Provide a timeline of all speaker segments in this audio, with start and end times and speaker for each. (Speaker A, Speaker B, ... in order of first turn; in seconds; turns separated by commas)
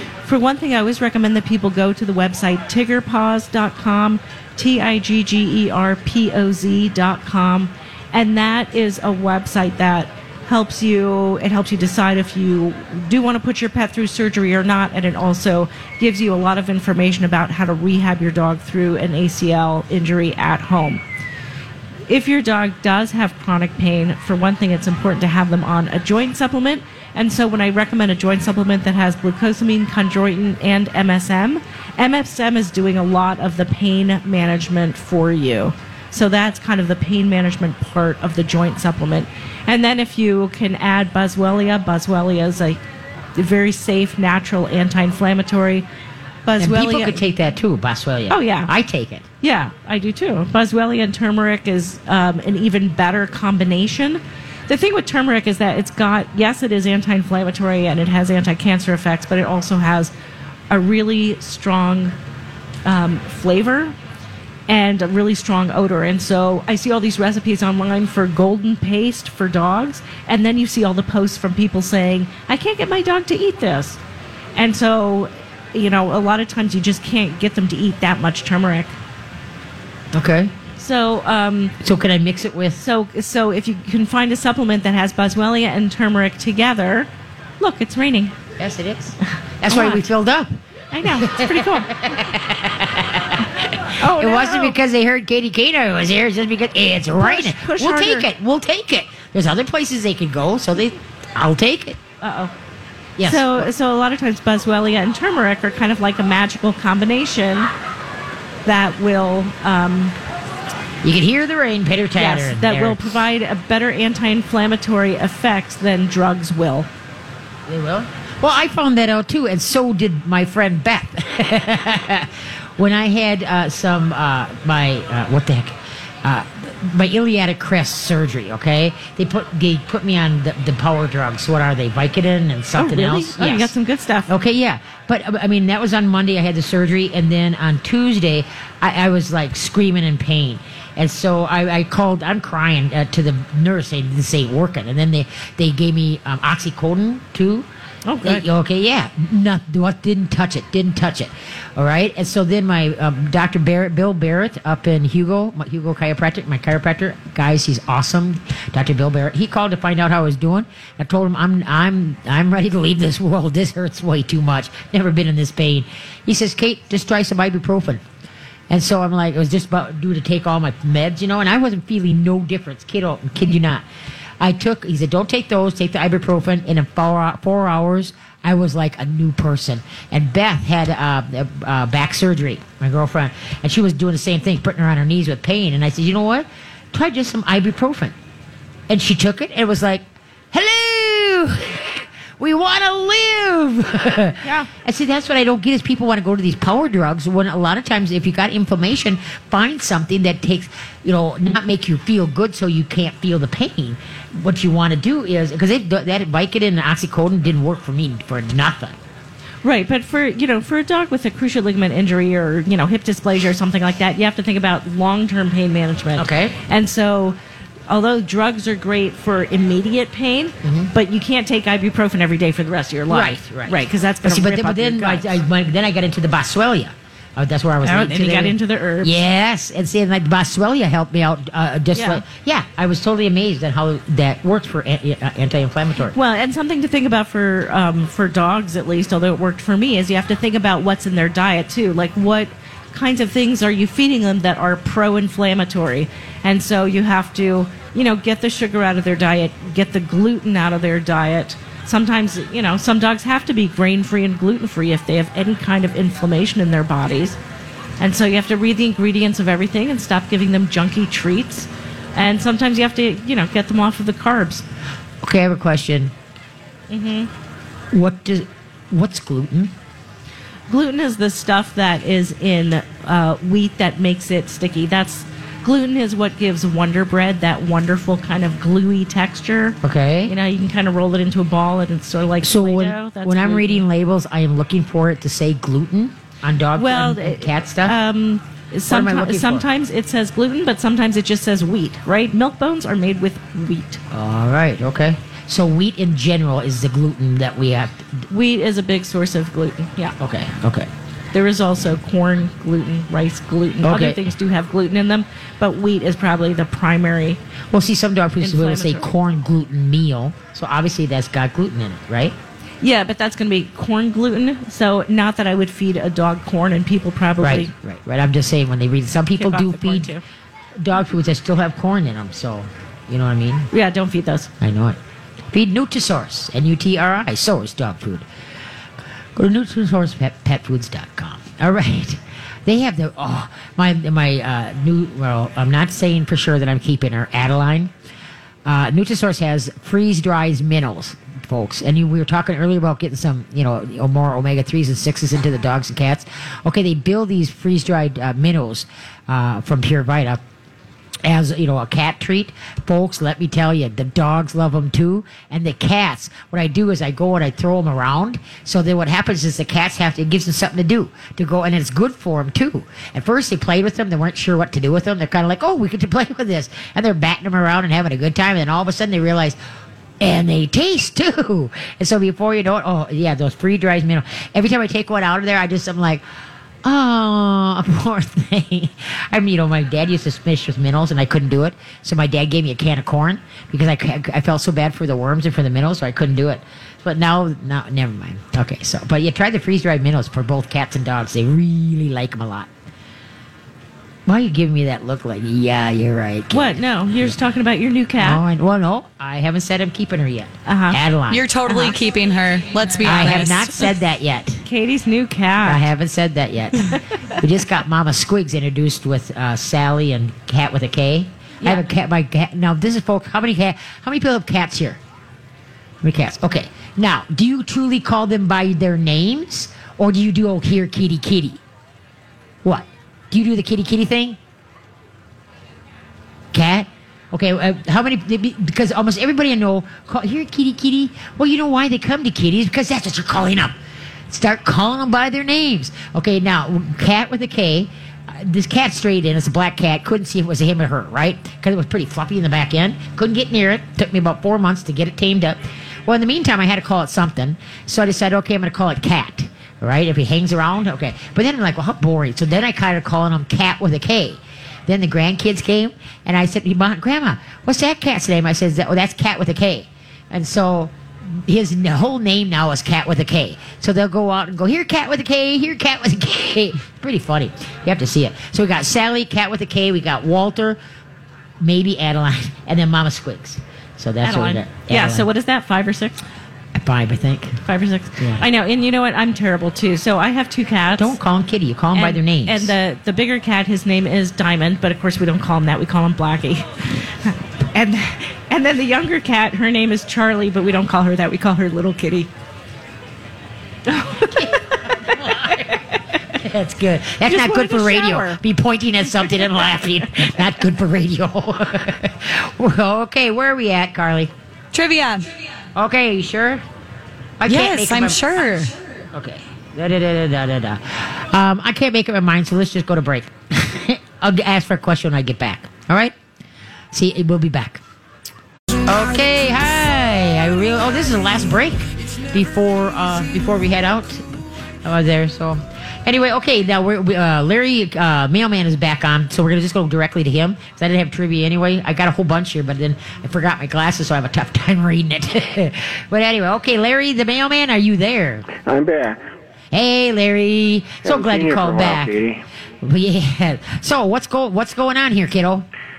Speaker A: 0.2-21.0, Speaker A: 22.1-42.8, Speaker A: 43.4-45.9, Speaker A: 46.5-47.2, Speaker B: 46.6-49.2, Speaker A: 48.3-48.7, Speaker A: 49.4-60.1, Speaker A: 60.7-62.1, Speaker A: 62.8-63.9, Speaker A: 64.7-74.0, Speaker A: 74.5-78.9, Speaker B: 80.1-80.5, Speaker A: 80.8-81.7, Speaker B: 81.8-82.8, Speaker A: 82.8-87.1, Speaker A: 87.6-88.3, Speaker B: 88.6-102.0, Speaker A: 89.7-90.0, Speaker A: 90.9-91.9, Speaker A: 94.0-94.8, Speaker A: 97.2-98.3, Speaker A: 102.2-102.5, Speaker B: 103.2-103.7, Speaker A: 103.2-107.7, Speaker A: 108.6-110.1, Speaker B: 111.0-113.2, Speaker A: 112.2-116.9, Speaker B: 117.7-133.7, Speaker A: 132.7-134.3, Speaker B: 134.3-147.7, Speaker A: 148.0-148.4, Speaker B: 148.2-168.0, Speaker B: 168.7-173.8, Speaker B: 174.4-188.1, Speaker B: 188.9-209.0, Speaker A: 194.4-194.7, Speaker A: 209.6-217.3, Speaker B: 216.2-216.6, Speaker A: 217.9-225.4, Speaker B: 220.6-220.9, Speaker B: 223.1-236.2, Speaker A: 227.8-229.2, Speaker A: 231.9-232.2, Speaker A: 236.1-257.4, Speaker A: 258.0-264.6, Speaker B: 265.2-266.1, Speaker A: 266.9-267.3, Speaker B: 267.9-269.7, Speaker A: 270.7-283.8, Speaker B: 279.8-280.3, Speaker B: 282.4-288.0, Speaker A: 286.7-294.0, Speaker B: 288.9-289.6, Speaker B: 294.1-298.3, Speaker A: 298.3-300.1, Speaker B: 300.2-300.9, Speaker A: 301.3-307.4, Speaker B: 303.8-304.3, Speaker B: 307.7-312.3, Speaker A: 308.4-309.1, Speaker A: 312.8-317.7, Speaker B: 317.4-320.1, Speaker A: 319.4-320.2, Speaker B: 320.8-323.7, Speaker A: 323.7-324.5, Speaker B: 324.6-325.0, Speaker B: 325.5-328.2, Speaker B: 329.3-337.9, Speaker B: 338.6-350.4, Speaker B: 351.2-369.6, Speaker B: 370.2-376.2, Speaker B: 376.8-392.7, Speaker B: 394.2-397.3, Speaker A: 396.5-398.4, Speaker B: 398.2-401.5, Speaker A: 400.6-401.0, Speaker C: 401.3-403.9, Speaker A: 401.7-401.9, Speaker B: 403.0-404.6, Speaker A: 404.6-405.8, Speaker B: 405.6-415.0, Speaker B: 416.0-421.6, Speaker B: 422.6-424.4, Speaker B: 426.5-433.8, Speaker B: 434.3-470.8, Speaker B: 471.6-475.3, Speaker A: 474.2-476.2, Speaker B: 476.7-477.6, Speaker A: 477.6-481.2, Speaker B: 478.2-478.4, Speaker B: 481.0-482.7, Speaker A: 481.9-492.3, Speaker A: 493.9-495.6, Speaker B: 494.1-504.3, Speaker A: 497.2-498.4, Speaker C: 504.7-505.3, Speaker B: 505.7-506.6, Speaker B: 507.4-508.5, Speaker C: 507.4-508.7, Speaker B: 509.1-516.1, Speaker B: 516.9-517.8, Speaker B: 518.9-524.3, Speaker B: 524.8-538.5, Speaker D: 538.5-539.2, Speaker B: 539.7-542.1, Speaker D: 541.0-542.4, Speaker B: 542.8-545.6